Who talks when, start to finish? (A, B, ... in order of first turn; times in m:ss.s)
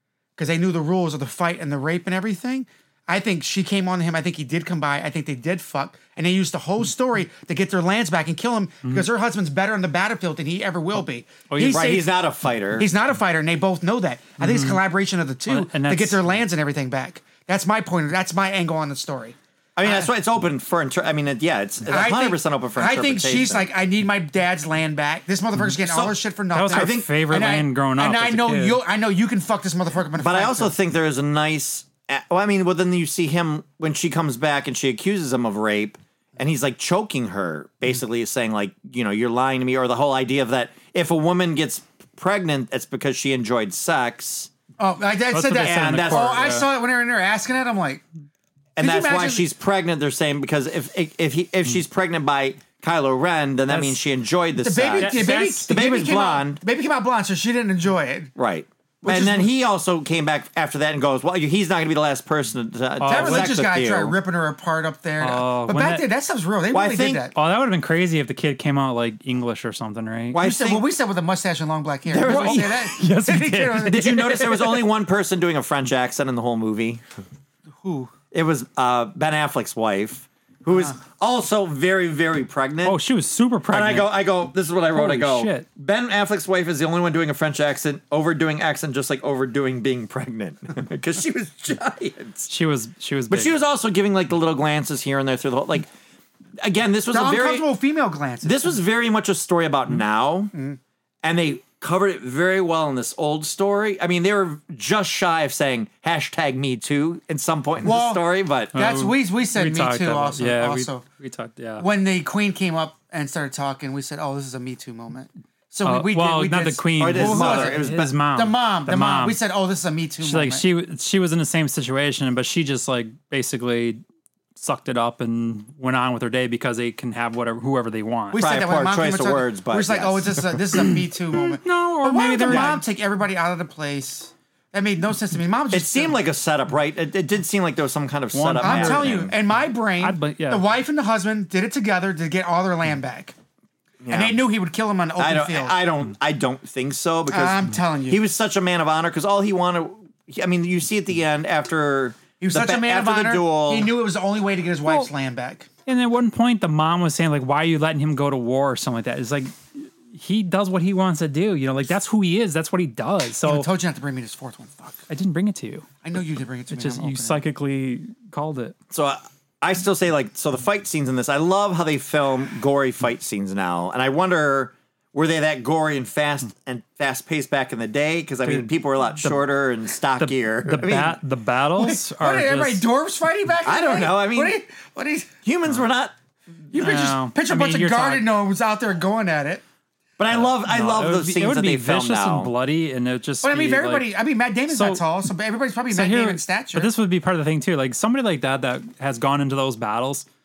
0:00.4-0:12.2 A
0:11.5-0:11.9 B
0:11.7-0:12.9 C
0:12.8-0:20.1 A
0:14.4-0:14.8 B
0:15.5-0:16.2 B
0:19.8-0:23.7 C
0:21.9-0:30.7 A
0:25.8-0:26.1 C
0:26.5-0:28.8 B
0:26.7-0:27.1 C
0:30.2-0:44.5 C
0:44.8-0:48.0 A
0:45.3-0:46.7 B
0:45.6-0:46.6 C
0:48.8-0:56.6 C
0:48.8-0:49.5 A
0:53.7-0:54.0 B
0:54.6-0:58.3 A
0:55.0-0:55.7 B
0:58.4-1:04.1 C
0:59.0-0:59.5 A
1:03.0-1:03.6 B
1:03.0-1:07.3 A
1:05.2-1:06.0 B
1:06.7-1:07.3 C
1:07.3-1:10.4 B
1:10.3-1:10.8 C
1:10.4-1:14.6 A
1:12.1-1:12.8 C
1:12.2-1:14.4 B
1:13.8-1:17.0 C
1:17.8-1:18.1 A
1:18.3-1:23.0 C
1:22.8-1:24.2 B
1:23.7-1:32.5 C
1:24.9-1:25.7 B
1:32.5-1:33.5 B
1:33.3-1:35.9 C
1:36.6-1:37.6 C
1:37.1-1:38.8 A
1:38.4-1:40.5 C
1:40.5-1:40.8 A
1:41.2-1:48.7 C
1:47.8-1:51.0 A
1:48.7-1:51.9 B
1:51.8-2:00.6 A
1:55.8-1:59.4 B
1:57.0-1:58.1 C
2:00.2-2:04.0 B
2:04.5-2:08.4 B
2:08.3-2:16.2 A
2:08.4-2:10.6 C
2:10.7-2:12.8 B
2:12.5-2:12.8 C
2:15.7-2:19.3 C
2:18.3-2:19.2 B
2:18.6-2:23.3 A
2:20.0-2:20.6 B
2:24.0-2:24.4 C
2:24.1-2:25.8 A
2:25.2-2:33.9 C
2:27.3-2:28.2 A
2:32.4-2:35.7 A
2:35.8-2:43.7 B
2:43.4-2:45.0 A
2:45.1-2:45.9 B
2:46.0-2:47.4 A
2:46.7-2:48.8 B
2:48.9-3:01.2 C
2:58.4-2:59.5 B
3:00.2-3:02.8 B
3:01.8-3:05.3 A
3:03.6-3:04.6 C
3:05.4-3:06.1 C
3:06.7-3:09.6 A
3:06.7-3:08.3 B
3:10.2-3:12.5 C
3:10.3-3:14.1 B
3:13.4-3:16.9 A
3:14.7-3:15.0 B
3:15.9-3:20.2 B